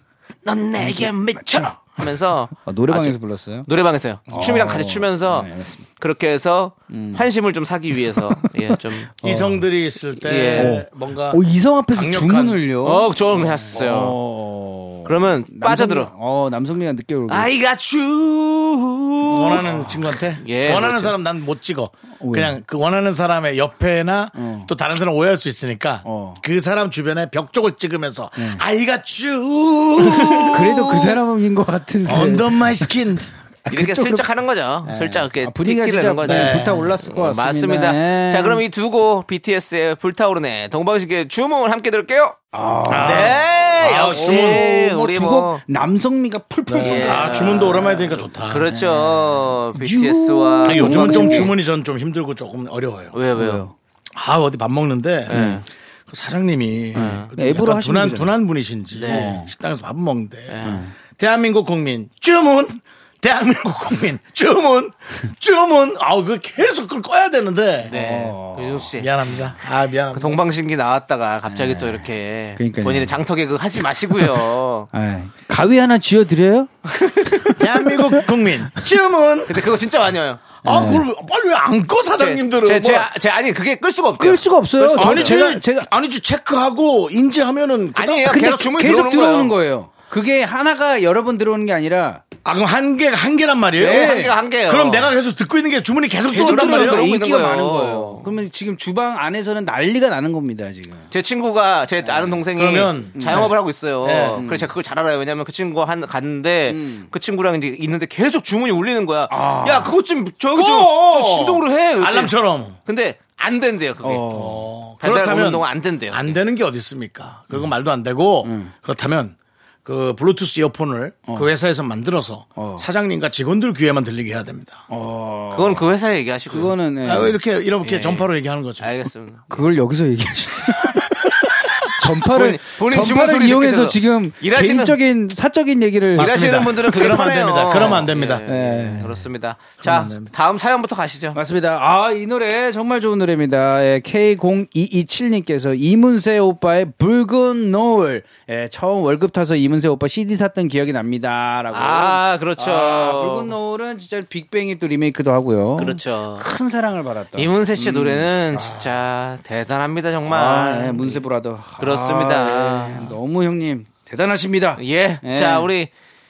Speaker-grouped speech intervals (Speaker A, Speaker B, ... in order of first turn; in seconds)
Speaker A: 0.4-9.1, 10.2-10.8, 12.8-14.2, 15.0-16.1, 17.3-21.1, 33.7-42.4, 42.9-45.6, 46.8-51.5, 53.1-53.6, 55.3-55.6, 56.9-57.3, 58.9-59.3, 60.5-60.8, 67.9-69.1, 70.1-74.9, 79.5-80.5, 82.2-85.4, 88.0-89.5, 93.8-95.1, 96.3-98.3, 101.1-114.3, 115.0-116.4, 125.5-126.8, 127.8-128.3, 128.8-129.4, 132.3-134.9, 136.2-141.4, 151.7-153.5, 155.8-156.4, 157.3-161.2, 161.8-163.2, 164.8-165.9
Speaker B: 0.8-1.8, 2.6-3.7, 4.3-5.8, 6.9-7.2, 8.7-9.6, 10.5-17.5, 22.2-22.6, 24.4-24.7, 26.0-26.4, 28.4-28.6, 30.4-32.9, 33.6-34.3, 34.8-38.6, 42.5-43.4, 44.0-51.5, 53.3-53.7, 55.3-55.6, 57.0-58.3, 59.1-59.5, 60.6-60.9, 67.8-68.9, 71.5-73.2, 74.9-78.3, 80.6-81.0, 84.2-85.9, 88.3-92.2, 93.8-94.3, 96.3-101.1, 102.0-102.4, 103.1-103.5, 104.3-104.7, 106.7-107.1, 109.3-109.9, 114.0-114.7, 118.4-118.7, 122.5-122.8, 124.9-125.9, 126.5-127.3, 129.5-131.3, 131.9-136.3, 137.9-139.2, 141.3-158.9, 160.3-165.7
Speaker C: 9.2-12.6, 19.3-31.2, 32.0-33.3, 36.2-36.9, 42.9-44.7, 46.7-48.6, 50.6-53.2, 54.1-55.5, 56.1-67.9, 69.0-70.4, 77.5-79.7, 80.6-83.1, 85.0-88.4, 92.4-97.0, 102.5-104.4, 110.5-112.8, 114.3-124.8, 127.0-128.9, 136.1-138.4, 139.8-140.3